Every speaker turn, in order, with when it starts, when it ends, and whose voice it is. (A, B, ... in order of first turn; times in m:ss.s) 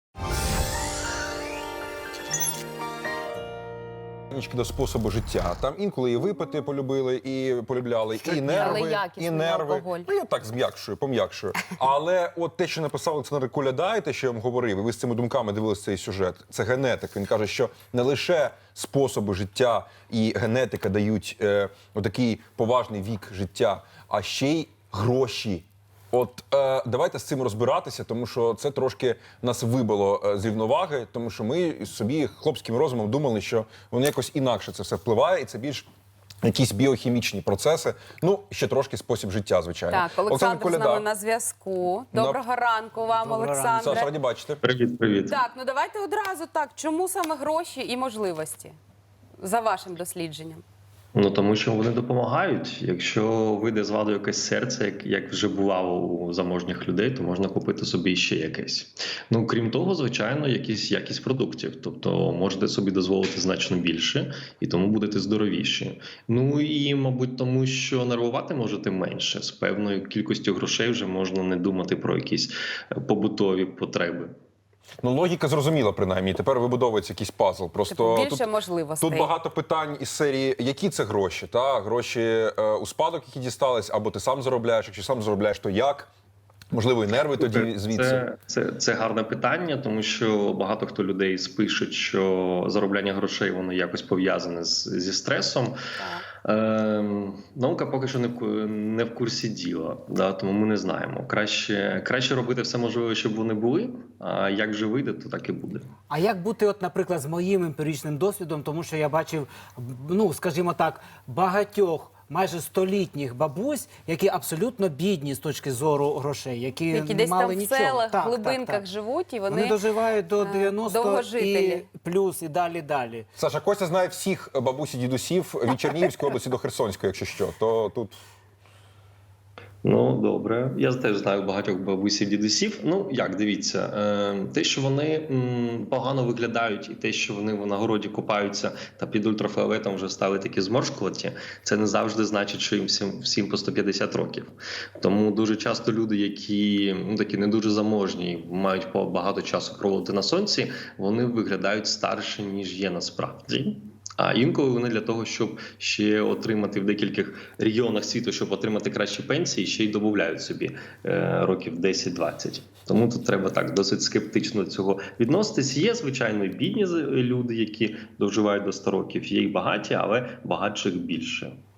0:04.3-0:35.9 A
0:08.3-0:08.8 B
0:08.5-0:10.1 C
0:36.4-0:41.1 A
0:39.9-0:44.1 C
0:42.1-0:42.4 A
0:43.2-0:43.9 B
0:43.8-0:44.6 A
0:44.6-0:45.4 D
0:45.2-0:48.8 C
0:49.4-0:50.6 C
0:51.1-1:14.3 D
1:15.0-1:18.5 A
1:17.9-1:19.3 C
1:19.0-1:26.1 A
1:26.7-1:28.2 A
1:27.4-1:35.8 D
1:36.0-1:36.3 C
1:36.4-1:45.9 D
1:46.1-1:58.8 B
1:56.9-1:59.8 C
1:59.5-2:03.3 B
2:00.4-2:01.9 C
2:03.4-2:08.2 A
2:09.8-2:51.6 D